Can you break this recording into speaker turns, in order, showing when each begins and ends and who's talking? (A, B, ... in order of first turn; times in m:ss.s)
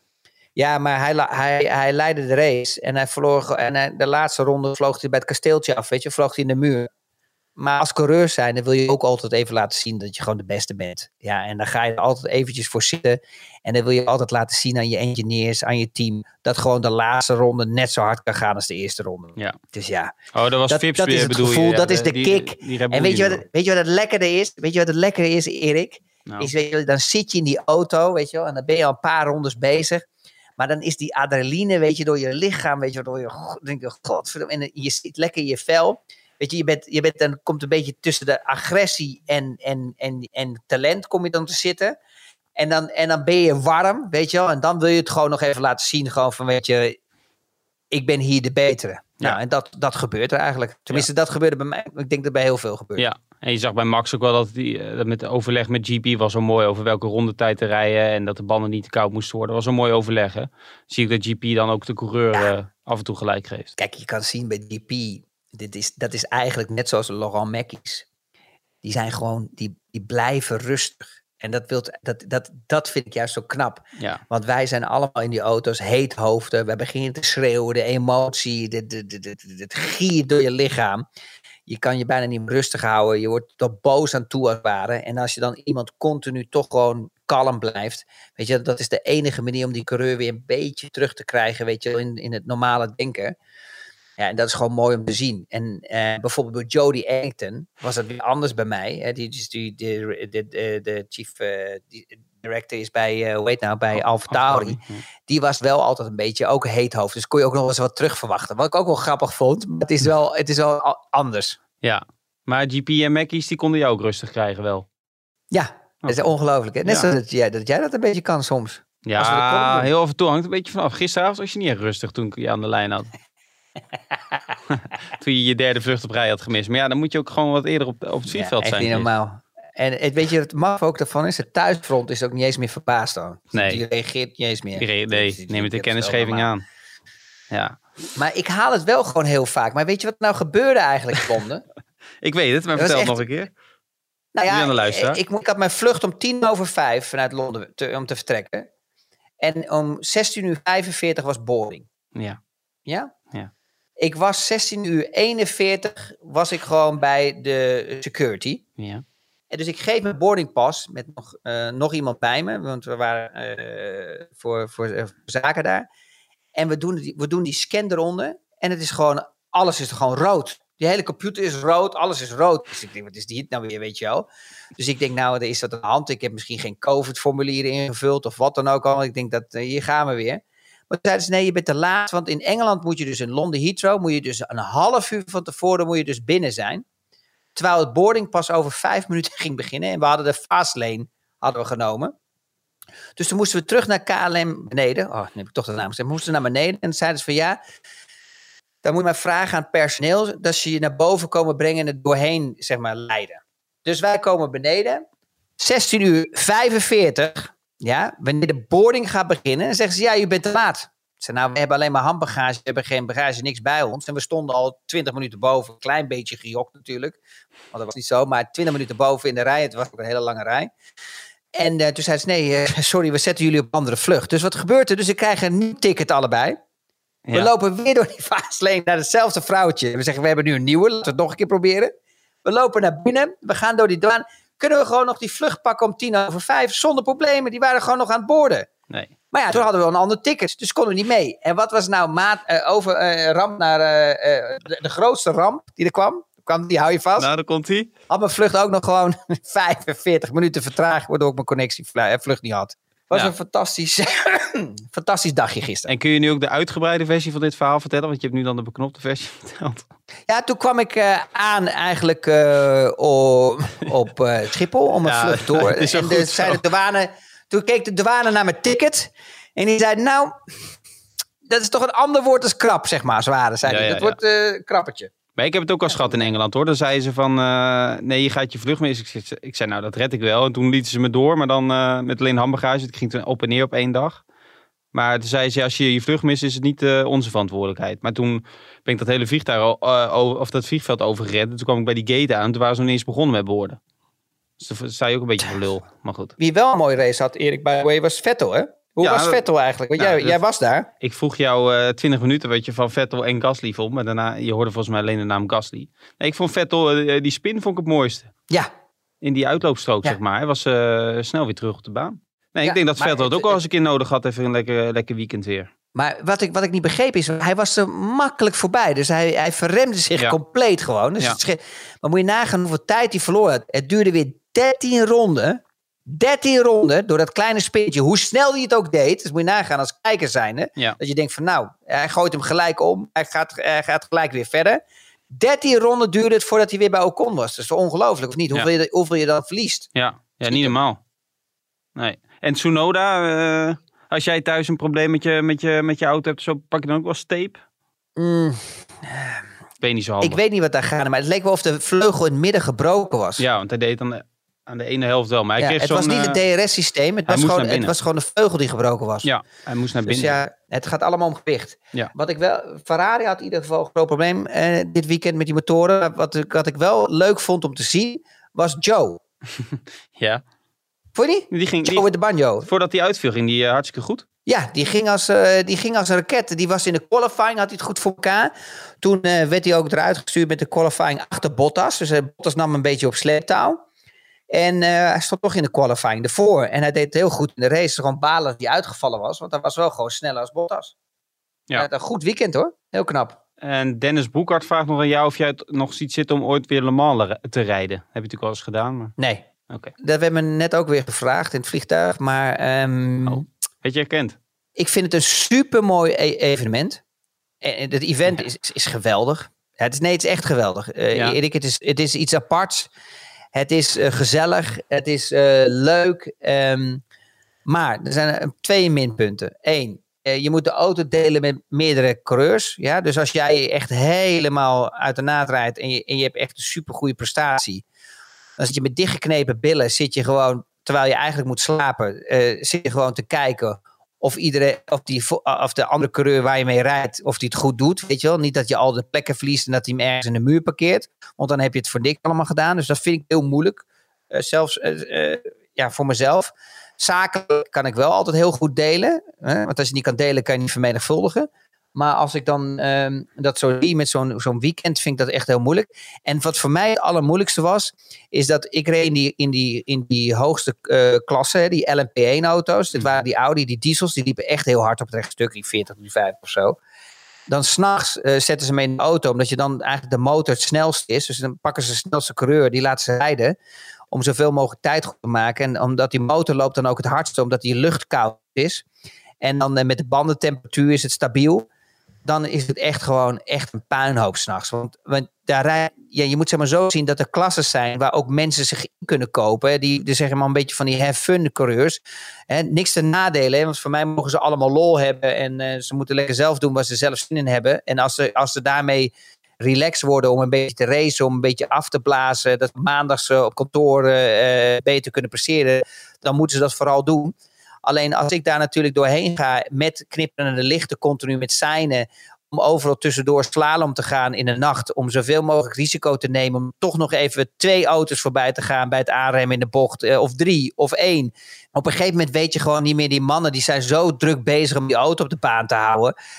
0:00.6-0:06.9 A
0:07.6-0:20.1 A
0:20.3-0:23.4 B
0:20.7-0:30.0 A
0:30.6-0:42.0 A
0:42.6-0:47.0 A
0:47.9-0:53.1 A
0:53.0-1:03.7 B
1:03.8-1:08.0 A
1:08.8-1:21.0 A
1:21.7-1:33.4 A
1:34.2-1:51.6 A
1:44.3-1:45.0 B
1:51.8-1:54.8 B
1:55.5-1:59.9 A
1:59.0-2:03.1 B
2:04.7-2:09.1 B
2:08.3-2:16.5 A
2:13.5-2:13.8 B
2:14.8-2:16.6 B
2:17.5-2:17.8 B
2:18.2-2:21.6 A
2:22.2-2:23.5 B
2:22.8-2:23.2 A
2:24.3-2:28.7 A
2:24.5-2:25.2 B
2:29.4-2:31.8 A
2:32.8-2:33.1 A
2:34.0-2:38.6 A
2:38.8-2:39.0 B
2:39.5-2:45.8 A
2:46.5-3:06.8 A
3:07.5-3:12.1 A
3:13.2-3:17.6 A
3:18.8-3:25.0 A
3:25.6-3:37.2 A
3:37.7-3:40.7 A
3:41.5-3:46.6 A
3:47.3-3:51.9 A
3:52.4-3:58.7 A
3:58.9-3:59.5 B
3:59.3-4:07.3 A
4:07.2-4:07.9 B
4:08.1-4:15.9 A
4:15.9-4:19.9 B
4:20.3-4:30.4 A
4:25.0-4:26.6 B
4:31.4-4:35.1 A
4:33.6-4:34.2 B
4:35.4-4:44.2 B
4:35.9-4:36.3 A
4:44.9-4:53.8 B
4:54.6-4:56.3 B
4:56.4-5:00.9 A
4:59.0-4:59.4 B
5:00.0-5:00.4 B
5:01.0-5:08.3 B
5:09.2-5:15.7 B
5:12.6-5:13.6 A
5:15.9-5:39.9 A
5:39.9-5:41.0 B
5:40.5-5:40.7 A
5:42.0-5:47.6 B
5:48.2-5:49.4 A
5:49.8-5:50.4 B
5:50.2-5:53.4 A
5:53.4-5:56.4 B
5:55.6-5:59.3 A
5:57.3-5:57.9 B
5:59.2-6:00.4 B
6:00.1-6:09.2 A
6:09.6-6:10.4 B
6:11.2-6:12.7 A
6:11.5-6:12.1 B
6:12.6-6:14.2 B
6:14.4-6:23.8 A
6:24.5-6:30.9 A
6:31.7-6:33.4 A
6:33.6-6:39.1 B
6:39.2-6:39.4 A
6:40.0-6:43.4 A
6:43.2-6:44.4 B
6:44.8-6:47.0 A
6:47.6-6:52.9 A
6:53.5-6:57.0 A
6:57.6-7:07.8 A
7:08.6-7:46.8 A
7:47.5-7:53.6 A
7:54.1-7:58.8 A
7:59.4-8:01.7 A
8:02.2-8:46.1 A